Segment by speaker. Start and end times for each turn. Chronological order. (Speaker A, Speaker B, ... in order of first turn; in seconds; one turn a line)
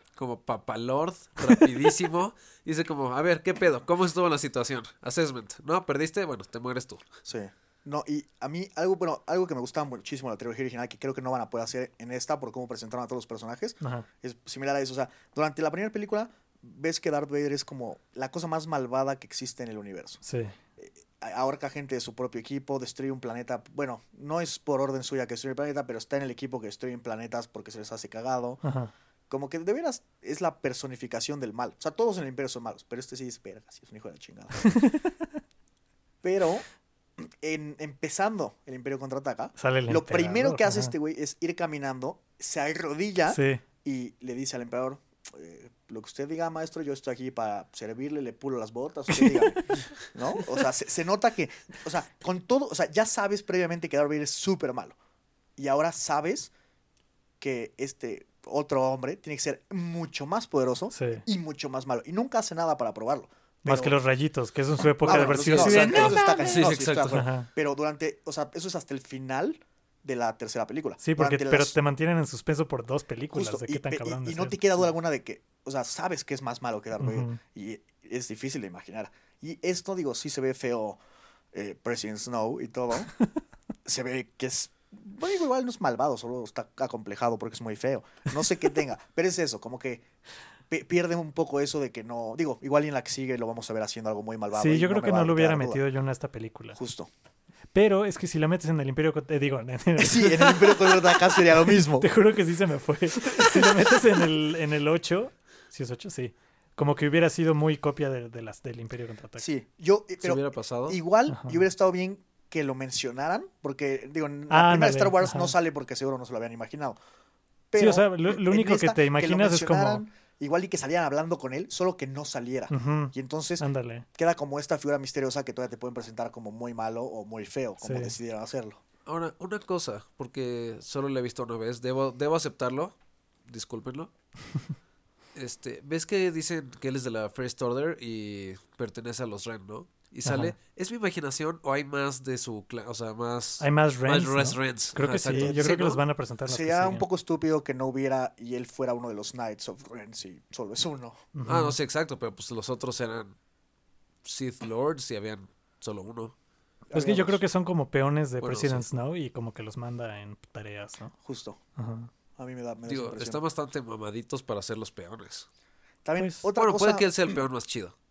Speaker A: 0.1-7.0
Speaker B: 7.2-20.2
Speaker C: 13.8-14.1
Speaker C: 20.2-20.5
Speaker B: 20.8-28.6
Speaker C: 28.6-28.9
Speaker B: 29.3-34.7
Speaker C: 34.6-35.1
Speaker B: 36.2-36.6
Speaker B: 37.2-55.0
Speaker C: 39.6-40.9
Speaker C: 43.3-43.6
Speaker C: 49.1-49.6
Speaker B: 55.6-56.5
Speaker B: 57.4-64.0
Speaker C: 60.9-61.2
Speaker C: 63.6-67.5
Speaker B: 65.0-71.7
Speaker A: 65.0-67.2
Speaker C: 71.0-74.6
Speaker B: 73.3-81.0
Speaker C: 77.0-77.4
Speaker B: 81.5-83.1
Speaker B: 83.8-90.0
Speaker B: 90.7-95.8
Speaker C: 94.5-96.8
Speaker B: 96.7-97.1
Speaker C: 97.7-109.4
Speaker B: 100.0-102.1
Speaker B: 109.4-117.0
Speaker A: 110.2-111.0
Speaker C: 111.3-111.6
Speaker C: 114.5-115.5
Speaker B: 117.7-128.8
Speaker C: 117.8-120.0
Speaker C: 122.7-124.0
Speaker C: 127.8-128.1
Speaker A: 129.1-134.1
Speaker A: 135.3-146.0
Speaker C: 140.2-140.6
Speaker C: 143.6-147.0
Speaker B: 145.3-145.9
Speaker B: 146.4-151.2
Speaker C: 151.3-151.8
Speaker A: 151.5-153.3
Speaker A: 154.2-156.3
Speaker B: 156.9-157.4
Speaker C: 156.9-161.1
Speaker A: 158.4-158.8
Speaker B: 161.2-161.6
Speaker C: 161.8-162.1
Speaker B: 162.4-163.4
Speaker A: 162.8-165.5
Speaker B: 166.0-167.1
Speaker C: 166.2-166.5
Speaker A: 166.6-167.9